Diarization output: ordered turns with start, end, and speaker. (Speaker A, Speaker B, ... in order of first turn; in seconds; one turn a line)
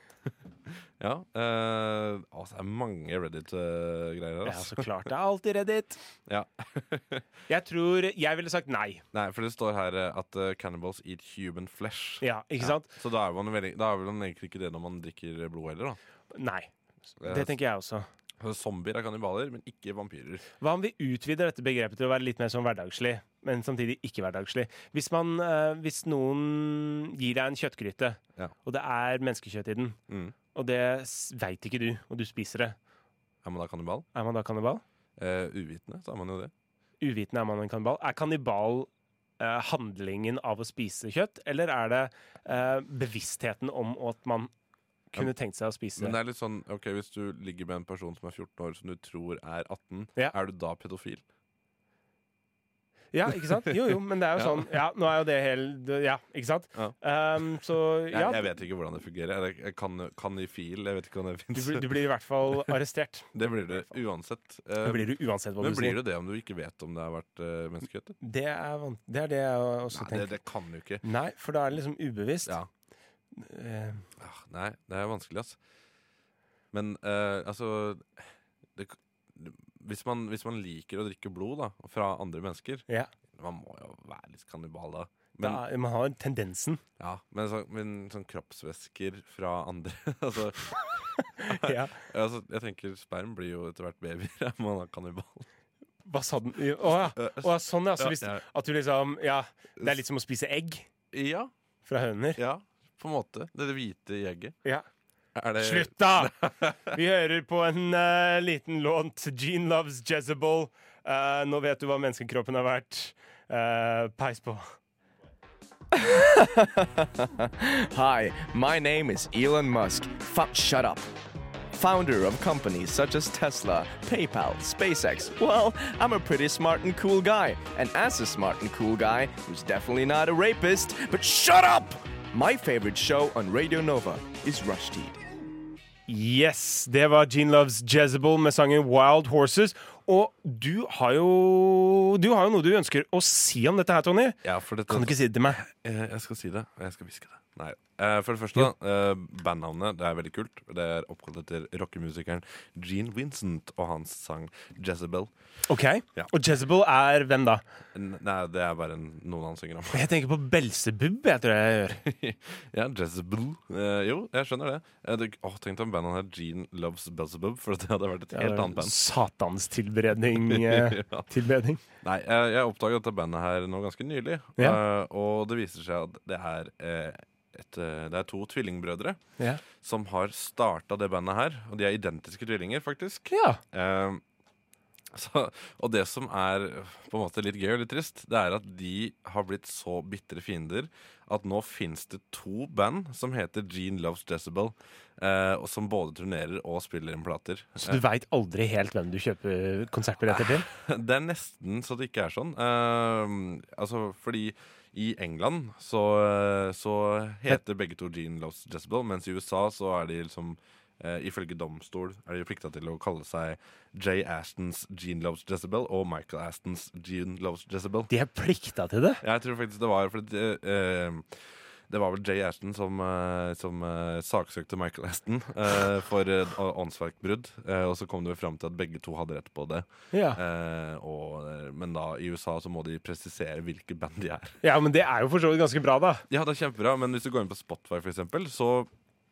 Speaker A: 0.7-4.9
Speaker B: 4.4-6.0
Speaker A: 6.3-7.2
Speaker B: 7.5-9.0
Speaker A: 9.1-16.0
Speaker B: 12.2-12.9
Speaker B: 16.3-18.1
Speaker A: 17.2-17.6
Speaker A: 18.4-20.4
Speaker B: 20.6-30.0
Speaker A: 30.1-30.3
Speaker B: 30.5-32.8
Speaker A: 33.4-34.1
Speaker B: 34.1-34.8
Speaker A: 35.2-36.5
Speaker B: 37.0-44.5
Speaker B: 45.1-46.2
Speaker A: 46.0-51.2
Speaker B: 53.1-58.5
Speaker A: 53.6-54.7
Speaker A: 58.1-61.9
Speaker B: 61.5-63.9
Speaker A: 62.5-62.7
Speaker A: 63.3-68.2
Speaker B: 64.8-66.0
Speaker B: 68.2-70.3
Speaker A: 69.9-71.0
Speaker B: 71.0-72.6
Speaker B: 73.3-74.0
Speaker A: 74.2-75.6
Speaker A: 76.7-85.6
Speaker B: 85.4-86.8
Speaker A: 87.0-95.5
Speaker B: 91.2-91.9
Speaker B: 96.0-100.8
Speaker A: 97.1-98.4
Speaker A: 101.1-101.5
Speaker B: 101.8-102.4
Speaker A: 102.3-104.6
Speaker A: 105.3-107.0
Speaker B: 105.5-106.3
Speaker B: 106.8-114.7
Speaker C: 115.9-121.1
Speaker C: 121.7-135.2
Speaker B: 136.1-145.6
Speaker A: 144.4-155.3
Speaker B: 155.7-157.6
Speaker A: 157.9-160.1
Speaker B: 159.9-162.0
Speaker A: 162.0-169.0
Speaker B: 168.3-171.8
Speaker A: 170.3-171.3
Speaker A: 172.0-179.2
Speaker A: 179.7-184.2
Speaker B: 183.3-183.6
Speaker A: 185.1-198.0
Speaker B: 197.8-200.7
Speaker A: 200.3-218.1
Speaker B: 218.1-219.2
Speaker A: 219.2-234.6
Speaker B: 230.1-230.4
Speaker B: 234.6-236.2
Speaker A: 236.3-238.9